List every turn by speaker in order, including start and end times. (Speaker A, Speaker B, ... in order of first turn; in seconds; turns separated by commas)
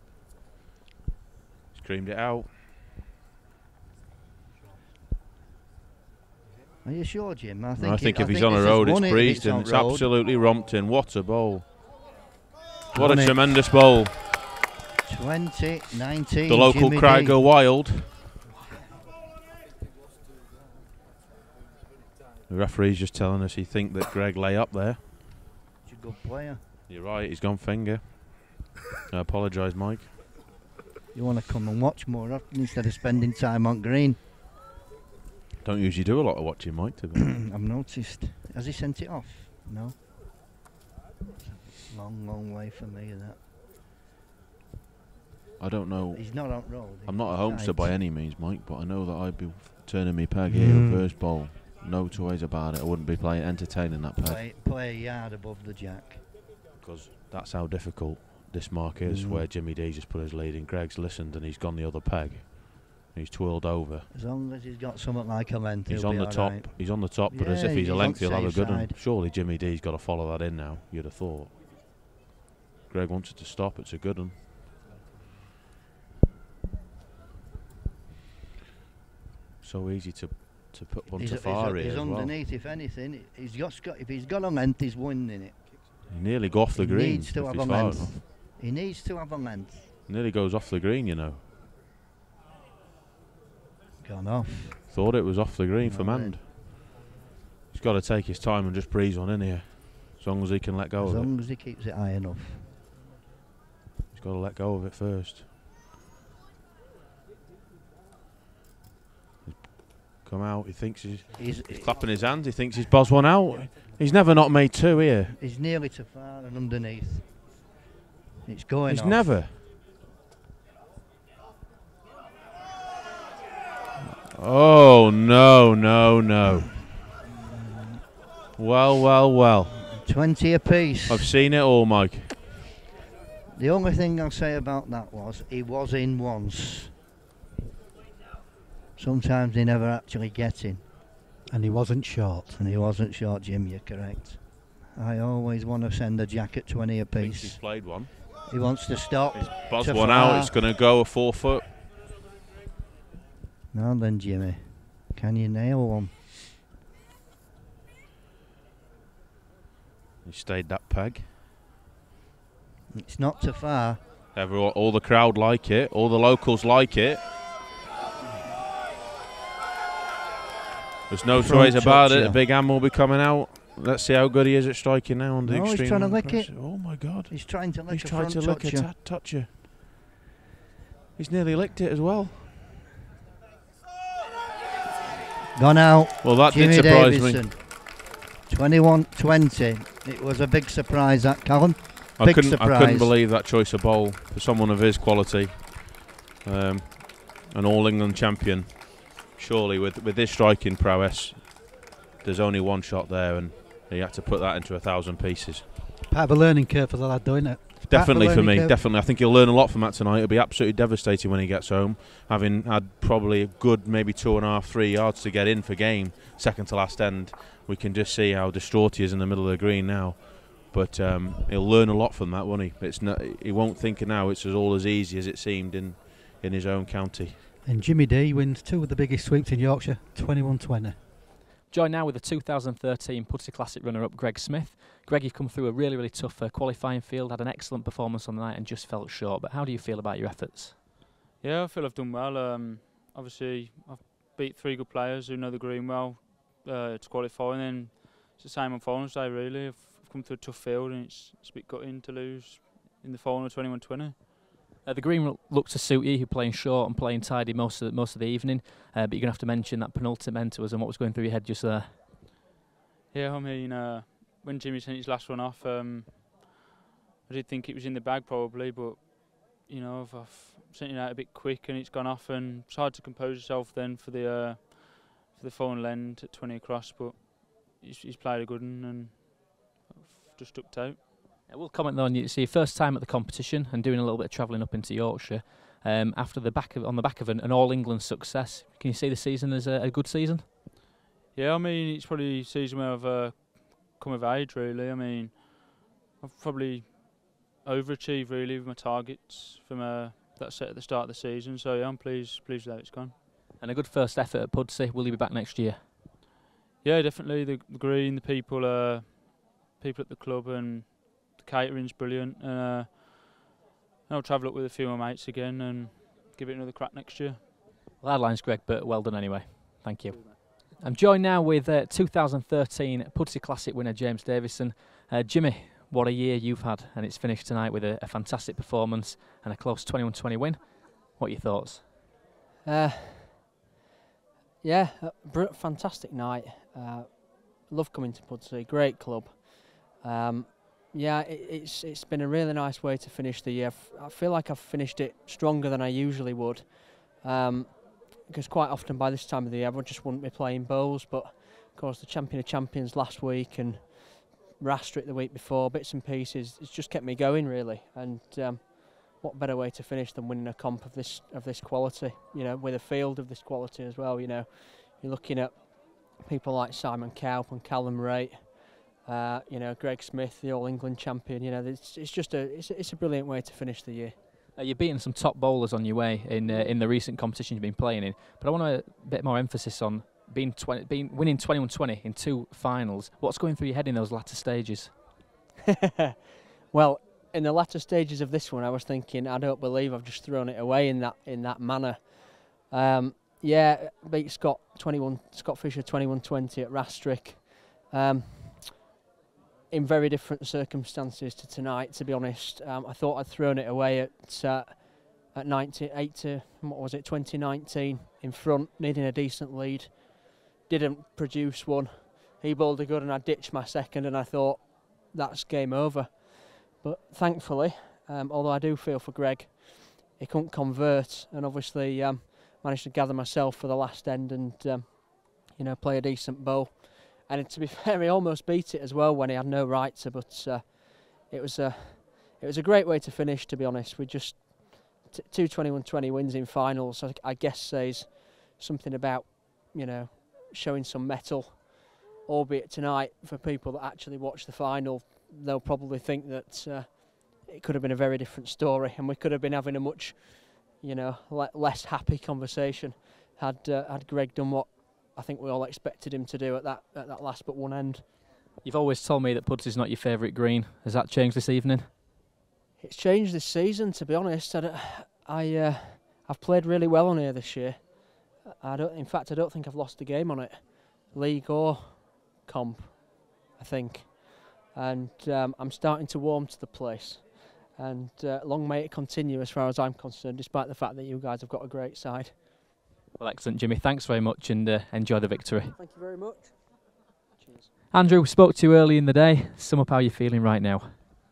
Speaker A: 1.7-2.5, Speaker B: 6.8-10.1, Speaker A: 7.8-11.7, Speaker A: 12.9-14.2, Speaker B: 12.9-13.4, Speaker B: 15.1-17.4, Speaker A: 16.5-18.1, Speaker A: 22.5-25.0, Speaker B: 25.8-26.6, Speaker A: 26.9-30.1, Speaker B: 31.1-34.2, Speaker A: 35.6-37.3, Speaker B: 37.2-40.0, Speaker B: 41.6-43.4, Speaker A: 45.6-54.4, Speaker B: 46.1-47.9, Speaker B: 50.5-51.1, Speaker B: 54.2-56.2, Speaker A: 56.8-64.1, Speaker B: 59.0-59.5, Speaker B: 64.1-69.0, Speaker A: 65.8-71.5, Speaker A: 72.9-74.4, Speaker A: 79.6-82.3, Speaker B: 81.2-85.6, Speaker A: 86.1-88.2, Speaker B: 86.7-89.9, Speaker A: 90.1-91.4, Speaker B: 94.0-94.9, Speaker A: 94.9-96.5, Speaker B: 95.8-96.5, Speaker A: 97.7-101.3, Speaker B: 101.0-102.7, Speaker A: 104.1-105.5, Speaker A: 109.4-115.3, Speaker B: 111.3-112.2, Speaker B: 115.3-117.4, Speaker B: 118.4-119.4, Speaker A: 118.9-119.6, Speaker A: 124.3-126.8, Speaker A: 128.6-129.8, Speaker B: 129.8-131.3, Speaker A: 131.1-132.5, Speaker B: 133.5-136.9, Speaker B: 138.9-140.8, Speaker C: 141.5-142.6, Speaker B: 142.6-150.6, Speaker A: 147.1-148.1, Speaker A: 149.3-151.7, Speaker B: 153.7-156.2, Speaker A: 160.2-161.3, Speaker B: 162.9-164.0, Speaker A: 164.3-167.2, Speaker A: 171.1-179.5, Speaker B: 171.3-172.4, Speaker B: 175.4-178.9, Speaker A: 181.2-182.6, Speaker B: 185.5-193.2, Speaker A: 186.2-187.5, Speaker A: 192.2-205.7, Speaker C: 206.1-208.8, Speaker A: 207.9-227.4, Speaker C: 227.6-231.0, Speaker D: 231.7-240.8, Speaker E: 241.4-254.2, Speaker D: 254.8-262.0, Speaker E: 263.1-266.5, Speaker E: 267.3-281.1, Speaker D: 281.5-290.6, Speaker E: 291.3-303.1, Speaker D: 303.6-306.0, Speaker E: 306.8-313.5, Speaker E: 314.1-317.4, Speaker D: 318.0-331.9, Speaker F: 332.6-333.4, Speaker F: 334.6-374.2, Speaker D: 374.5-385.0, Speaker F: 386.7-398.9, Speaker F: 399.7-458.2, Speaker D: 458.6-462.0, Speaker F: 462.8-482.4, Speaker D: 483.2-485.8, Speaker F: 485.7-487.7, Speaker D: 487.9-491.0